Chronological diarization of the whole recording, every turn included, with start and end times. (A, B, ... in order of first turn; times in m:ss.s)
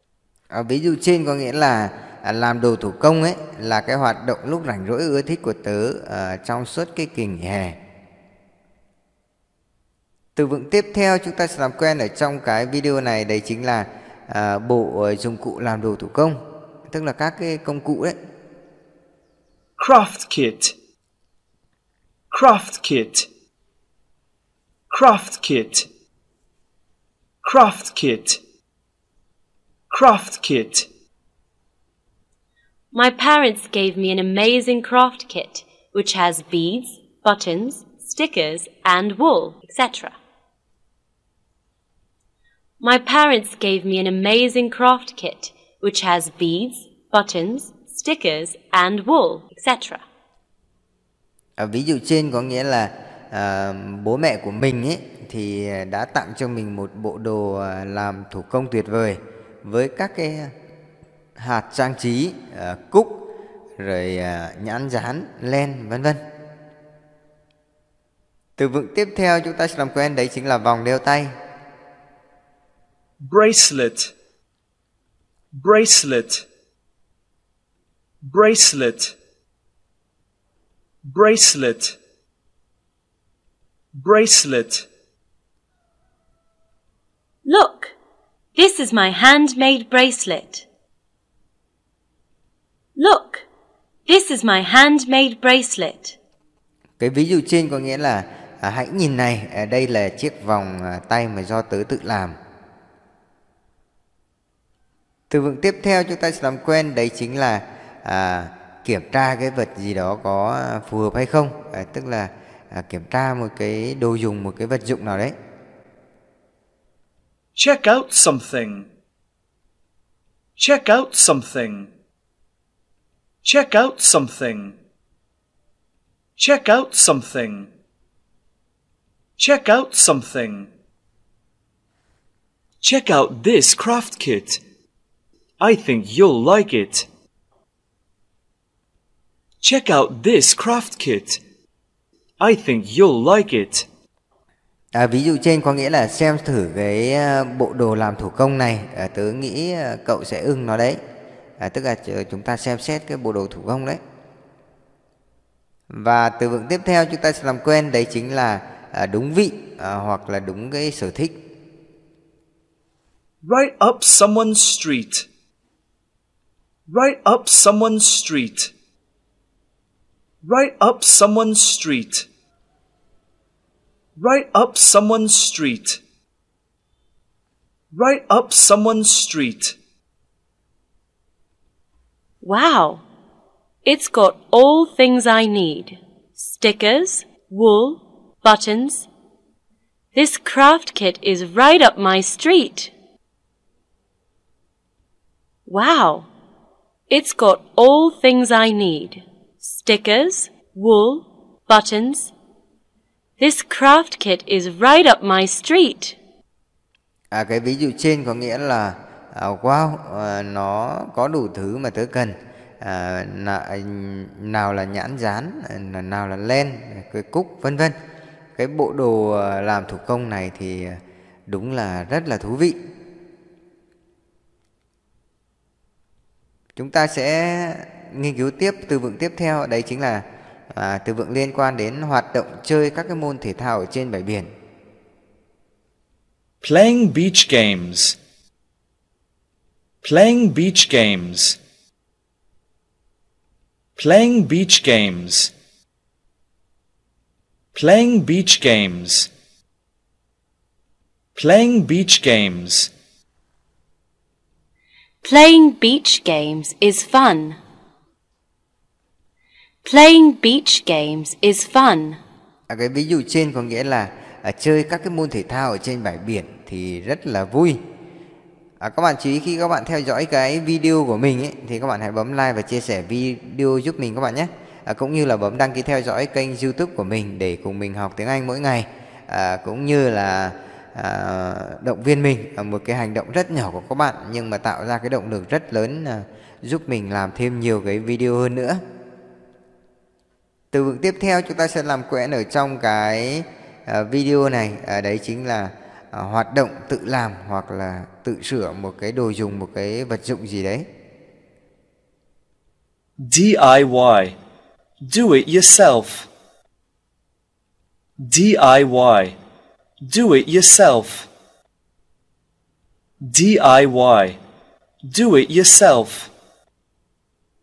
0:00.5-0:07.8 A
0:10.4-0:18.2 A
0:19.8-0:20.8 B
0:22.3-0:23.3 B
0:24.9-0:25.9 B
0:27.4-0:28.4 B
0:29.9-0:30.9 B
0:32.9-0:40.1 C
0:42.8-0:50.0 C
0:51.6-1:00.5 A
1:01.4-1:03.3 A
1:03.8-1:06.2 A
1:08.6-1:11.3 A
1:13.2-1:14.1 B
1:15.5-1:16.4 B
1:18.2-1:19.2 B
1:21.0-1:22.0 B
1:23.9-1:24.9 B
1:27.4-1:27.9 C
1:28.5-1:30.6 C
1:33.0-1:33.4 C
1:34.0-1:36.2 C
1:37.0-1:42.4 A
1:45.3-1:55.3 A
1:57.6-1:58.9 B
2:00.6-2:01.9 B
2:03.4-2:04.8 B
2:06.4-2:07.7 B
2:09.4-2:10.7 B
2:12.8-2:14.6 B
2:15.6-2:17.1 B
2:19.6-2:21.4 B
2:22.4-2:23.9 B
2:24.9-2:31.0 A
2:31.6-2:34.0 A
2:35.9-2:41.4 A
2:43.4-2:45.3 B
2:46.9-2:48.7 B
2:50.4-2:52.3 B
2:54.2-2:56.0 B
2:57.9-2:59.8 B
3:02.4-3:03.0 C
3:03.8-3:09.1 C
3:10.1-3:12.9 C
3:15.7-3:16.3 C
3:17.1-3:22.3 C
3:23.4-3:26.2 C
3:27.3-3:37.9 A
3:38.6-3:42.8 A
3:46.8-3:54.5 A
3:56.6-3:58.2 B
4:00.0-4:01.6 B
4:04.0-4:05.5 B
4:07.7-4:09.3 B
4:11.3-4:12.9 B
4:15.2-4:17.6 C
4:19.8-4:22.2 C
4:22.7-4:27.8 A
4:28.8-4:48.8 A
4:50.7-5:00.8 A
5:03.2-5:04.4 B
5:05.0-5:06.3 B
5:08.2-5:09.4 B
5:10.0-5:11.3 B
5:13.2-5:14.4 B
5:15.0-5:16.3 B